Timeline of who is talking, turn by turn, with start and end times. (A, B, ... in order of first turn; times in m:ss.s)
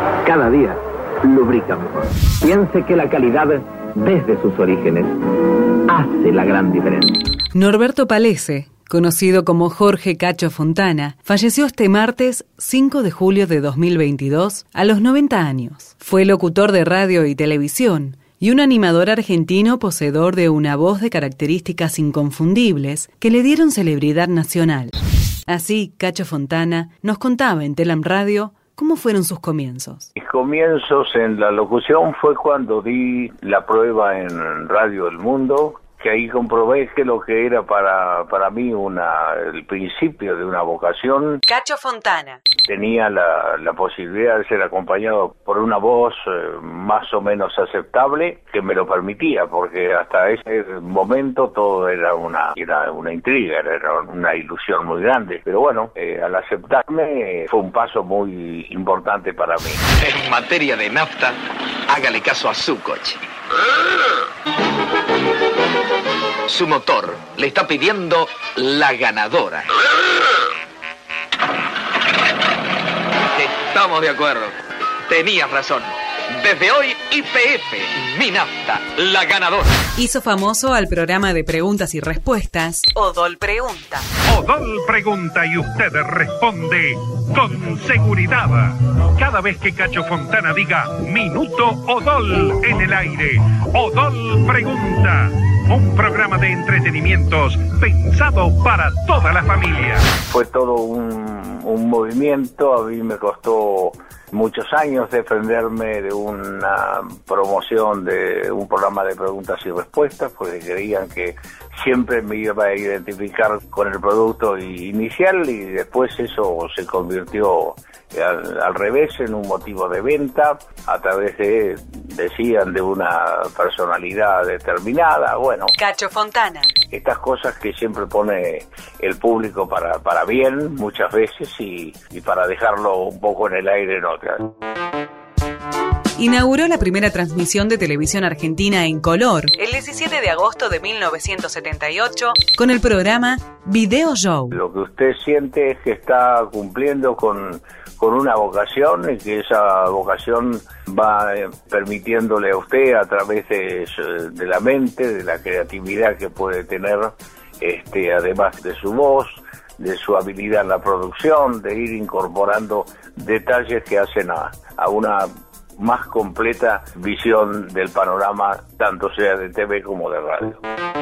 0:00.2-0:05.1 A
0:05.9-0:07.1 A
0:07.5-0:30.1 B
0:30.2-0:41.4 C
0:41.5-0:42.4 B
0:42.7-0:59.8 C
1:00.0-1:03.2 D
1:06.5-1:09.7 D
1:13.3-1:14.5 D
1:15.1-1:19.8 D
1:20.0-1:24.1 B
1:24.3-1:40.0 E
1:40.3-2:05.7 C
2:05.8-2:06.7 B
2:06.9-2:14.5 C
2:16.2-2:24.6 B
2:24.5-2:45.3 C
2:45.8-2:50.6 C